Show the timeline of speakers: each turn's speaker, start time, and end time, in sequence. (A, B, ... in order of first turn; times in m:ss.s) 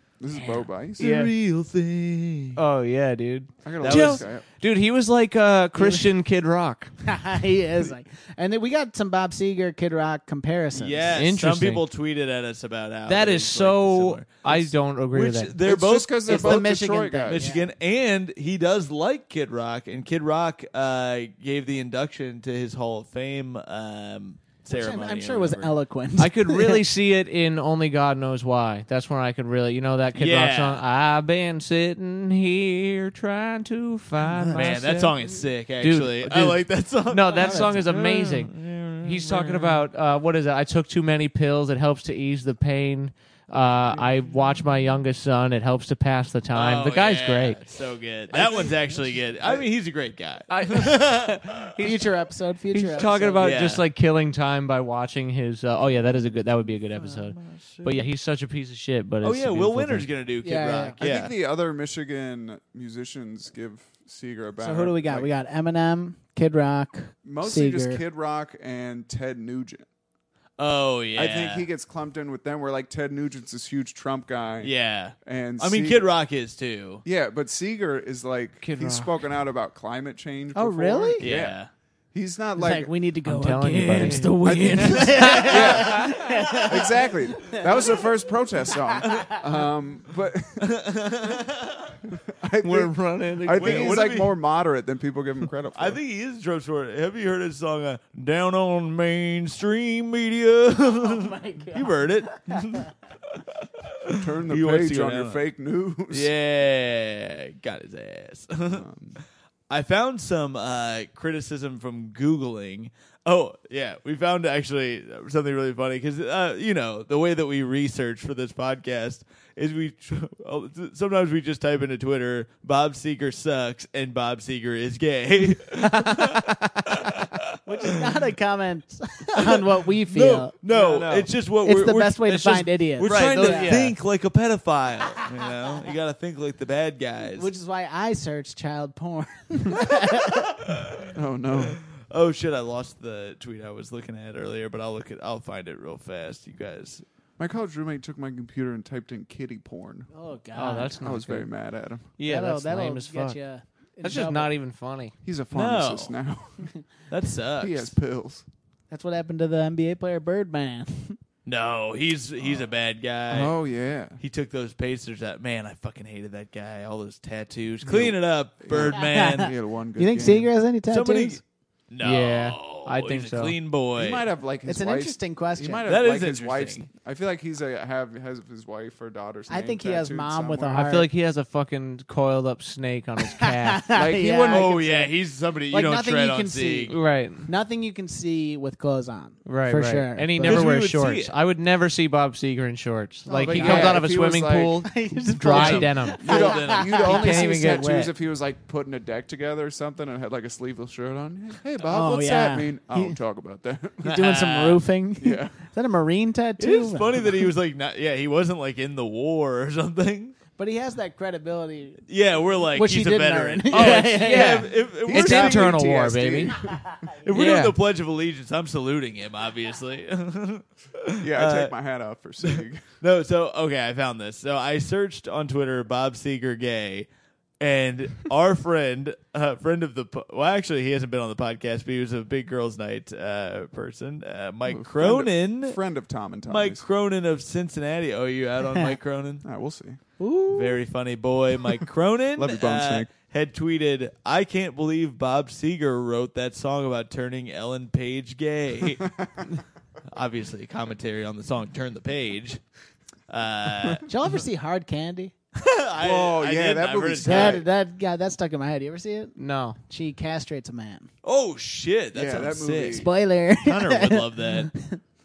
0:00.2-0:01.0 A
0:01.0-0:01.3 B
0:01.0-0:02.6 C
0:02.6-0:06.9 B
0:03.6-0:04.4 A
0:03.8-0:04.2 C
0:05.8-0:06.1 D
0:07.0-0:11.2 D
0:10.7-0:16.6 C
0:11.1-0:11.8 B
0:13.1-0:15.5 B
0:15.6-0:17.6 A
0:16.2-0:17.6 D
0:17.3-0:25.7 C
0:24.7-0:26.8 D
0:26.2-0:47.6 B
0:30.1-0:30.8 C
0:34.5-0:39.8 C
0:37.4-0:37.6 D
0:46.5-0:51.8 C
0:48.3-0:48.8 B
0:50.5-0:52.2 B
0:51.8-0:53.5 D
0:52.7-1:00.1 B
0:53.4-0:53.8 C
0:56.9-0:58.0 C
0:59.2-1:01.3 C
1:00.4-1:01.0 D
1:01.0-1:05.3 A
1:04.6-1:08.0 D
1:07.2-1:09.8 A
1:10.6-1:11.7 C
1:11.2-1:16.0 A
1:14.6-1:17.0 C
1:17.0-1:21.6 A
1:18.6-1:19.1 B
1:20.5-1:21.2 D
1:21.2-1:21.7 C
1:22.1-1:22.9 A
1:22.6-1:28.0 D
1:23.2-1:25.5 B
1:24.4-1:30.7 A
1:24.9-1:25.6 C
1:30.6-1:32.0 C
1:32.1-1:36.0 A
1:32.6-1:34.1 B
1:33.5-1:34.4 C
1:35.7-1:45.4 C
1:40.8-1:42.8 D
1:44.1-1:46.3 A
1:46.1-1:48.8 C
1:48.7-1:49.2 A
1:49.7-2:08.0 C
2:07.6-2:10.5 D
2:09.3-2:17.5 C
2:10.7-2:11.3 B
2:11.6-2:13.8 D
2:12.2-2:14.0 B
2:17.3-2:20.6 D
2:20.6-2:27.0 C
2:21.1-2:21.8 A
2:27.4-2:30.1 A
2:30.1-2:31.0 D
2:30.5-2:31.5 B
2:31.0-2:32.1 A
2:32.2-2:33.4 B
2:32.2-2:34.5 D
2:34.0-2:35.1 B
2:35.2-2:36.7 A
2:35.5-2:36.2 C
2:37.1-2:37.9 C
2:37.6-2:38.4 A
2:38.9-2:41.2 D
2:41.4-2:43.6 C
2:42.4-2:42.7 A
2:43.3-2:44.2 A
2:44.2-2:49.5 C
2:47.8-2:50.5 A
2:48.9-2:51.4 D
2:50.9-2:54.2 C
2:52.0-2:53.6 B
2:54.0-3:00.9 A
2:54.6-2:55.8 D
2:55.8-2:56.9 C
2:59.5-3:01.1 D
3:00.7-3:03.8 B
3:03.3-3:05.1 D
3:03.9-3:04.8 A
3:04.2-3:07.0 C
3:05.7-3:10.6 D
3:06.9-3:07.5 B
3:09.4-3:16.2 B
3:10.4-3:11.3 C
3:13.3-3:14.2 D
3:13.4-3:14.8 A
3:14.9-3:17.5 D
3:15.5-3:17.0 C
3:16.2-3:24.1 A
3:17.0-3:18.1 B
3:21.9-3:23.2 D
3:24.0-3:27.5 D
3:24.0-3:24.8 C
3:25.2-3:25.6 A
3:26.6-3:30.4 C
3:30.6-3:32.0 D
3:32.1-3:35.8 C
3:32.7-3:34.7 D
3:33.7-3:36.6 B
3:35.0-3:36.8 A
3:37.2-3:41.7 C
3:37.3-3:37.7 B
3:41.2-3:42.8 A
3:42.4-3:47.1 C
3:47.6-3:55.8 C
3:54.7-3:56.8 A
3:56.5-3:59.4 C
3:59.4-4:00.0 A
4:00.2-4:00.8 D
4:00.5-4:09.1 C
4:02.4-4:03.1 A
4:10.1-4:12.6 C
4:13.3-4:14.1 C
4:14.1-4:15.3 D
4:15.6-4:17.6 C
4:16.0-4:17.6 A
4:17.2-4:21.1 D
4:19.4-4:19.8 B
4:21.2-4:23.1 C
4:22.1-4:23.1 A
4:22.9-4:25.0 D
4:23.6-4:24.7 C